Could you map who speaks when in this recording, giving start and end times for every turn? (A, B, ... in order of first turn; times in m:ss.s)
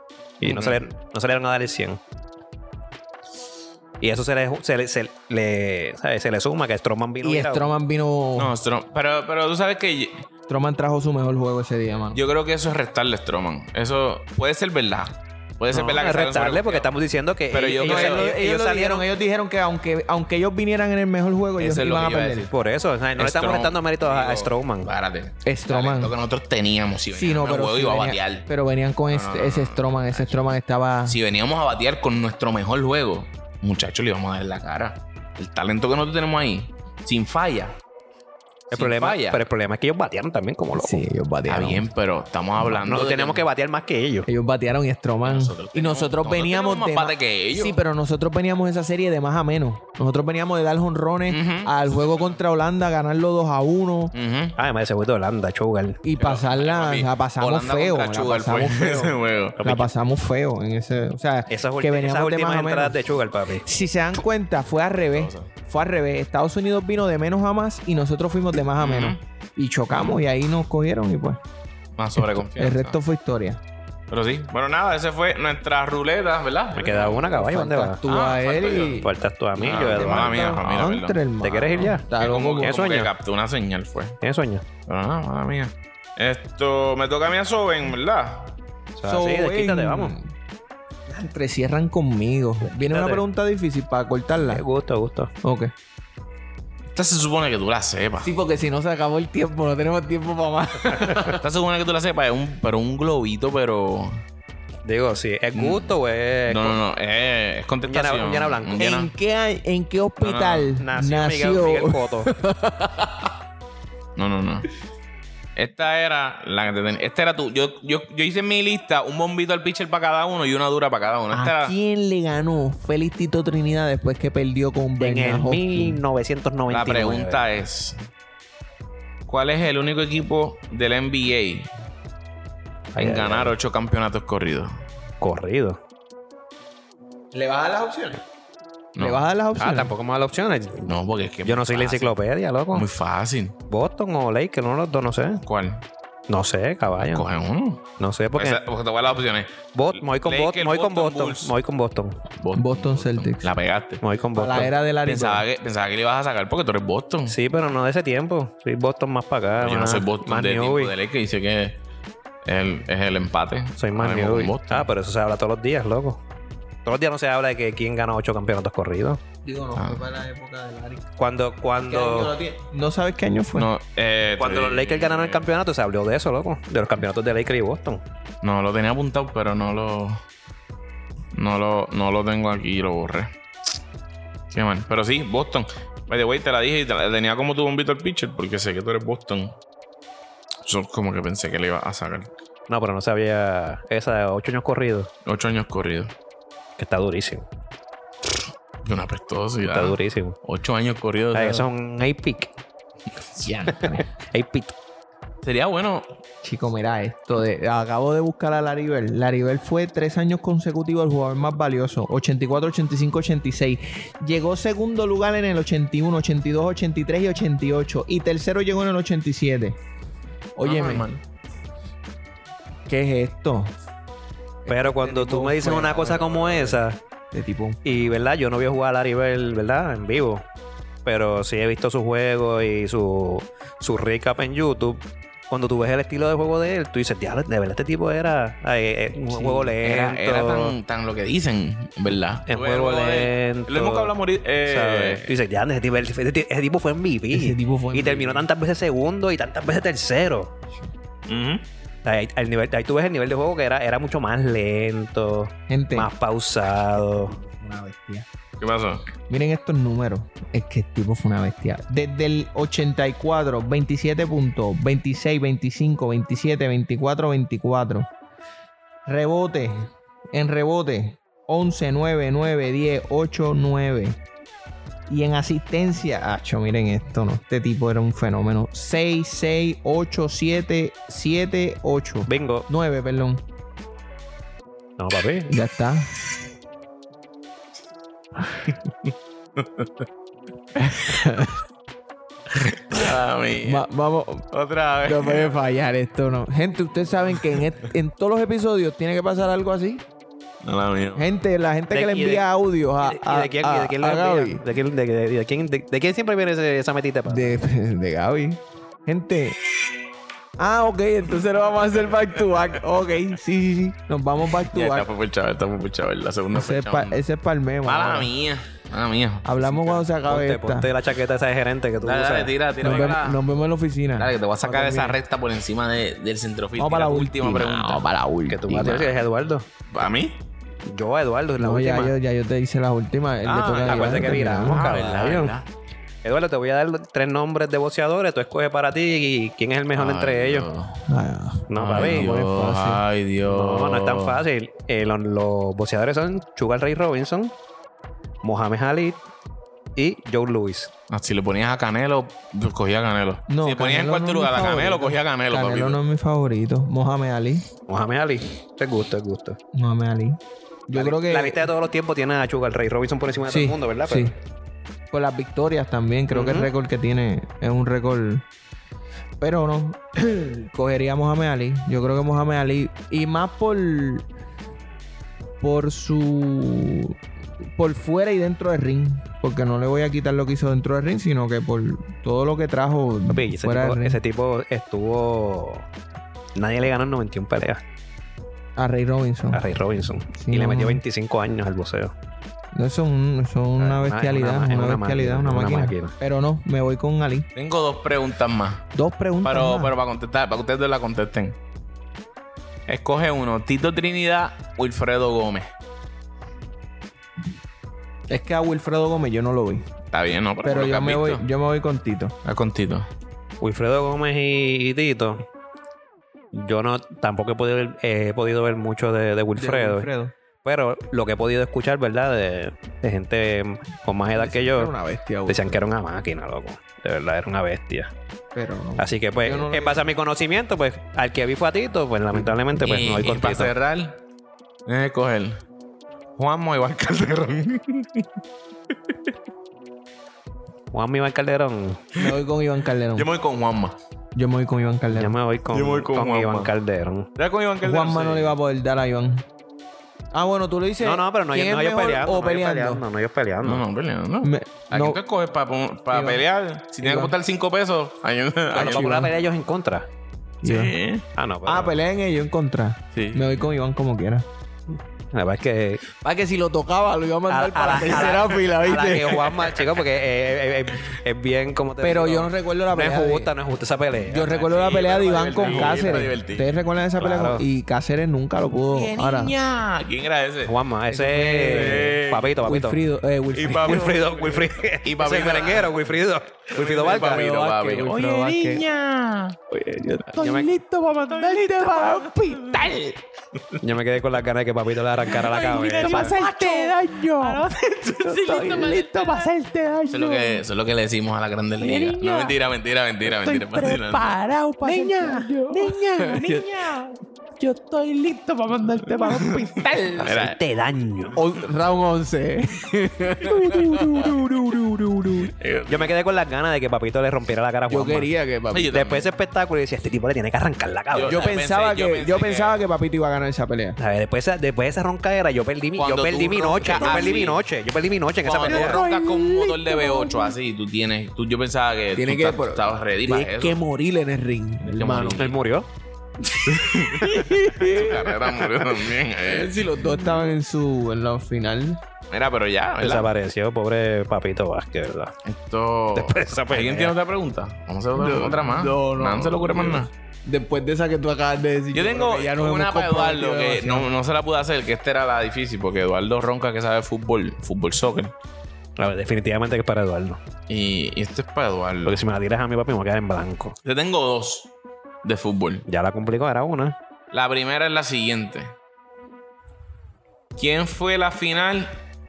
0:00.4-0:02.0 A
0:00.4-0:00.8 B
0:04.0-0:07.7 A
0:07.2-0:08.5 C
0:08.4-0:10.3 B
0:10.5-0:12.2 C
0:12.1-0:16.9 B
0:15.7-0:19.1 A
0:17.5-0:18.2 B
0:17.8-0:22.5 C
0:21.6-0:22.5 B
0:22.5-0:24.9 A
0:23.2-0:28.5 B
0:25.4-0:26.1 C
0:27.1-0:31.2 C
0:29.1-0:30.5 B
0:31.1-0:37.8 B
0:38.7-0:39.4 B
0:38.7-0:41.0 A
0:40.8-0:41.9 C
0:41.5-0:43.4 B
0:42.6-0:44.3 A
0:44.3-0:54.1 C
0:45.2-0:47.8 B
0:51.3-0:52.3 B
0:54.1-0:54.6 B
0:54.6-0:56.0 A
0:56.0-1:03.0 C
0:56.2-0:59.8 B
0:59.6-0:59.9 A
1:01.5-1:03.6 A
1:03.6-1:11.4 C
1:05.1-1:05.5 B
1:08.8-1:09.2 B
1:09.9-1:10.2 B
1:12.0-1:13.0 B
1:12.2-1:13.6 C
1:14.1-1:17.3 B
1:16.7-1:18.0 A
1:17.3-1:19.1 C
1:18.1-1:21.2 B
1:19.0-1:20.6 A
1:20.0-1:22.8 C
1:21.4-1:22.1 A
1:21.8-1:24.2 B
1:22.6-1:23.1 A
1:24.2-1:24.7 A
1:24.9-1:28.5 B
1:29.0-1:30.2 A
1:29.0-1:30.3 C
1:31.1-1:34.6 C
1:32.6-1:33.2 A
1:34.3-1:35.3 A
1:35.4-1:35.7 C
1:36.9-1:38.3 B
1:38.2-1:41.4 C
1:41.1-1:44.2 B
1:44.8-1:46.8 A
1:45.5-1:49.1 B
1:47.9-1:48.9 A
1:48.8-1:53.3 C
1:50.2-1:50.8 B
1:50.8-1:52.3 A
1:54.2-1:54.7 B
1:55.6-2:01.7 B
2:01.3-2:06.0 C
2:05.0-2:07.4 A
2:06.7-2:08.0 B
2:09.3-2:11.7 B
2:12.9-2:13.6 A
2:13.0-2:14.7 B
2:15.2-2:15.8 A
2:17.3-2:18.2 C
2:19.0-2:19.3 B
2:19.0-2:19.9 C
2:19.6-2:22.9 A
2:20.8-2:22.2 B
2:22.7-2:23.6 B
2:23.7-2:25.4 A
2:25.4-2:25.8 B
2:26.3-2:27.3 A
2:27.0-2:27.8 B
2:28.0-2:28.6 A
2:28.4-2:31.5 B
2:29.7-2:32.2 A
2:32.4-2:34.0 B
2:32.6-2:33.5 C
2:34.0-2:34.7 A
2:34.4-2:35.4 C
2:35.0-2:37.4 B
2:37.3-2:40.9 A
2:39.6-2:41.8 B
2:42.4-2:44.9 B
2:43.8-2:46.2 A
2:46.8-2:49.2 A
2:49.4-2:51.1 C
2:49.8-2:50.0 B
2:51.2-2:52.4 A
2:51.8-2:53.7 C
2:53.6-2:55.5 B
2:54.4-2:58.0 A
2:58.4-3:00.2 B
3:01.3-3:03.3 B
3:04.5-3:09.6 B
3:10.6-3:12.3 B
3:12.7-3:15.1 A
3:15.2-3:16.1 B
3:16.8-3:17.5 A
3:18.8-3:21.7 B
3:19.6-3:20.4 A
3:21.3-3:22.5 A
3:23.4-3:24.1 C
3:23.7-3:24.8 A
3:25.4-3:26.1 B
3:26.4-3:39.8 C
3:40.6-3:41.1 C
3:40.6-3:41.2 B
3:42.9-3:43.8 C
3:44.6-3:46.8 C
3:44.7-3:47.0 A
3:47.3-3:48.1 C
3:47.8-3:50.5 A
3:51.0-4:00.8 A
3:59.3-3:59.7 C
3:59.8-4:05.3 B
4:02.5-4:04.1 A
4:04.6-4:10.5 A
4:07.3-4:08.5 C
4:11.3-4:11.7 B
4:12.0-4:17.4 A
4:15.7-4:16.1 C
4:17.0-4:18.3 C
4:18.6-4:19.0 B
4:19.3-4:28.1 C
4:29.1-4:34.2 C
4:35.1-4:43.4 C
4:42.3-4:42.7 A
4:45.0-4:45.6 A
4:45.5-4:46.2 C
4:49.6-4:49.9 B
4:50.8-4:51.6 C
4:52.5-4:53.9 B
4:53.6-4:54.5 C
4:54.5-4:55.6 B
4:55.0-5:00.0 C
5:00.6-5:01.2 B
5:01.2-5:04.6 C
5:01.9-5:02.5 A
5:03.0-5:07.6 A
5:07.3-5:09.6 C
5:10.6-5:15.1 C
5:14.6-5:17.2 B
5:16.5-5:18.3 C
5:17.8-5:20.1 B
5:19.4-5:20.9 C
5:20.2-5:23.2 A
5:22.0-5:23.5 B
5:22.8-5:25.2 C
5:24.2-5:28.0 B
5:26.8-5:29.1 C
5:28.5-5:29.7 A
5:28.8-5:29.2 B
5:29.9-5:30.4 B
5:30.8-5:32.2 A
5:31.6-5:34.9 C
5:33.4-5:35.7 B
5:33.8-5:35.6 A
5:36.2-5:40.7 A
5:40.0-5:41.0 B
5:41.1-5:43.0 C
5:41.7-5:42.3 A
5:41.8-5:44.4 B
5:43.4-5:47.6 A
5:48.4-5:49.2 A
5:50.0-5:50.9 A
5:51.1-5:56.0 B
5:53.5-5:57.7 C
5:57.9-5:59.6 A
5:59.7-6:01.7 C
6:00.9-6:04.3 A
6:03.5-6:04.4 C
6:05.1-6:08.5 C
6:06.3-6:06.7 A
6:09.4-6:14.2 C
6:15.6-6:17.2 C
6:17.8-6:24.2 C
6:23.3-6:25.9 A
6:26.6-6:27.8 A
6:28.8-6:29.7 C
6:29.5-6:32.2 A
6:30.3-6:31.0 C
6:32.7-6:37.5 C
6:33.8-6:36.2 A
6:37.6-6:38.9 B
6:38.9-6:39.9 C
6:39.4-6:41.6 B
6:42.9-6:45.7 B
6:48.3-6:49.9 C
6:50.1-6:51.4 B
6:50.6-6:52.4 C
6:52.4-6:53.1 B
6:53.6-6:55.5 A
6:56.5-7:00.1 A
6:59.6-7:00.3 C
7:00.6-7:04.9 A
7:04.4-7:05.8 C
7:05.5-7:08.1 A
7:08.6-7:10.1 C
7:09.0-7:13.7 A
7:12.8-7:14.2 B
7:14.9-7:15.6 B
7:16.4-7:18.3 B
7:20.9-7:22.1 A
7:22.2-7:23.3 C
7:23.2-7:24.0 B
7:24.4-7:25.4 C
7:25.1-7:27.3 A
7:25.7-7:26.7 B
7:27.4-7:28.6 B
7:27.8-7:29.5 C
7:30.3-7:33.0 C
7:31.0-7:33.9 A
7:33.6-7:39.2 B
7:34.4-7:35.2 C
7:36.1-7:36.4 C
7:37.0-7:37.3 C
7:38.7-7:40.1 A
7:38.8-7:39.3 C
7:40.6-7:41.0 C
7:40.6-7:41.3 B
7:41.4-7:42.0 A
7:41.6-7:44.5 C
7:43.1-7:43.6 B
7:45.3-7:46.0 A
7:46.2-7:49.7 C
7:47.5-7:54.9 A
7:52.0-7:53.5 C
7:54.2-7:59.6 C
7:54.5-7:56.8 B
7:55.6-7:56.3 A
7:57.2-7:57.7 A
7:58.9-8:00.8 B
8:00.6-8:03.0 A
8:01.1-8:04.2 C
8:01.6-8:02.5 B
8:03.6-8:06.0 B
8:03.6-8:07.5 A
8:06.7-8:09.6 B
8:06.8-8:08.8 C
8:09.7-8:13.2 C
8:10.4-8:10.7 A
8:11.3-8:13.0 B
8:13.8-8:16.4 A
8:15.3-8:20.6 C
8:15.3-8:19.5 B
8:20.1-8:24.4 B
8:21.8-8:22.6 C
8:23.2-8:30.3 C
8:24.8-8:26.5 A
8:25.2-8:27.0 B
8:29.1-8:30.6 B
8:30.2-8:31.4 A
8:31.3-8:35.5 C
8:33.5-8:34.3 B
8:35.5-8:36.1 B
8:35.9-8:38.3 A
8:37.9-8:38.9 C
8:38.7-8:39.3 B
8:38.8-8:41.5 A
8:41.1-8:42.8 B
8:41.3-8:44.0 C
8:44.0-8:49.0 A
8:46.0-8:47.6 B
8:46.8-8:47.5 C
8:48.4-8:53.8 B
8:48.6-8:50.5 C
8:52.2-8:55.5 C
8:54.8-8:55.5 B
8:55.4-8:55.9 A
8:56.6-8:58.6 C
8:56.6-8:59.8 B
8:59.4-9:02.0 C
9:02.3-9:03.3 B
9:03.0-9:05.4 A
9:05.4-9:10.1 B
9:06.2-9:07.2 A
9:08.2-9:14.1 C
9:11.9-9:18.3 B
9:19.0-9:20.4 A
9:20.7-9:22.2 B
9:22.0-9:23.8 A
9:23.8-9:24.7 B
9:25.2-9:25.9 B
9:25.9-9:27.0 A
9:27.3-9:28.8 B
9:30.6-9:32.0 B